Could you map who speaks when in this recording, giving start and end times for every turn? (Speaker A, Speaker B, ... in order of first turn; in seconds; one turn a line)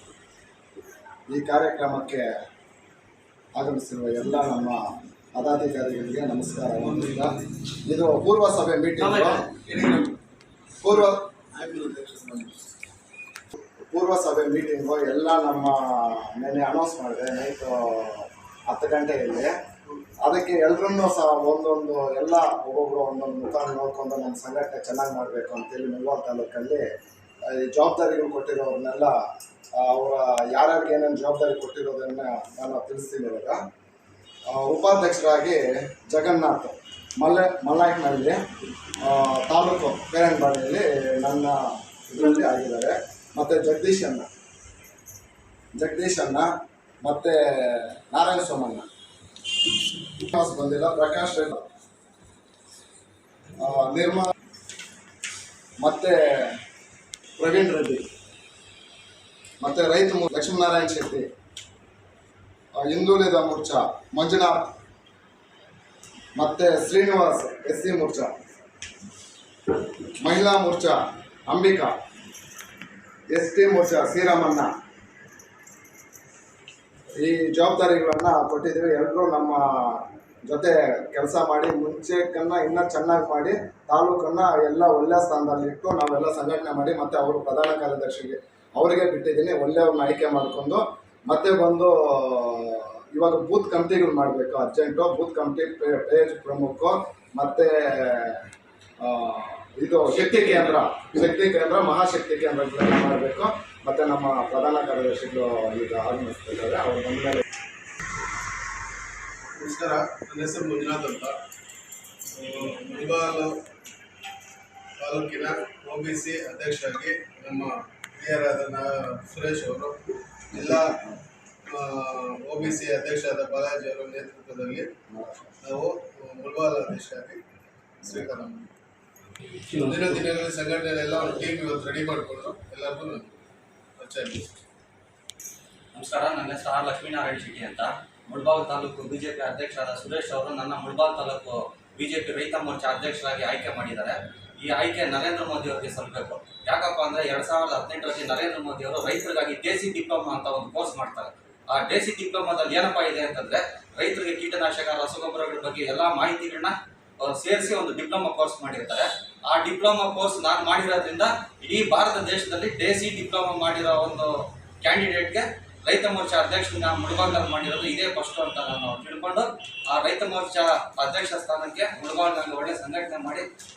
Speaker A: 1.3-2.3
Speaker A: 3.5-4.8
Speaker A: 5.3-9.4
Speaker B: 9.0-10.2
Speaker A: 10.8-11.3
Speaker B: 11.5-12.7
Speaker A: 13.8-19.5
Speaker A: 20.2-26.9
Speaker A: 27.4-29.1
Speaker A: 29.7-33.6
Speaker A: 34.5-38.4
Speaker A: 39.0-44.3
Speaker A: 45.7-46.5
Speaker A: 47.0-48.9
Speaker A: 50.1-51.6
Speaker A: 53.5-54.3
Speaker A: 55.8-56.6
Speaker A: 57.4-58.1
Speaker A: 59.6-61.3
Speaker A: 62.8-64.7
Speaker A: 66.3-68.3
Speaker A: 70.2-71.9
Speaker A: 73.3-74.7
Speaker A: 77.2-98.5
Speaker A: 99.0-107.4
Speaker B: 100.1-100.8
Speaker B: 109.5-111.4
Speaker B: 112.3-113.5
Speaker B: 115.0-120.0
Speaker B: 120.5-121.0
Speaker B: 121.7-124.9
Speaker A: 125.1-125.5
Speaker B: 125.6-127.4
Speaker B: 128.0-128.7
Speaker B: 129.7-133.3
Speaker B: 134.0-134.5
Speaker C: 135.9-173.5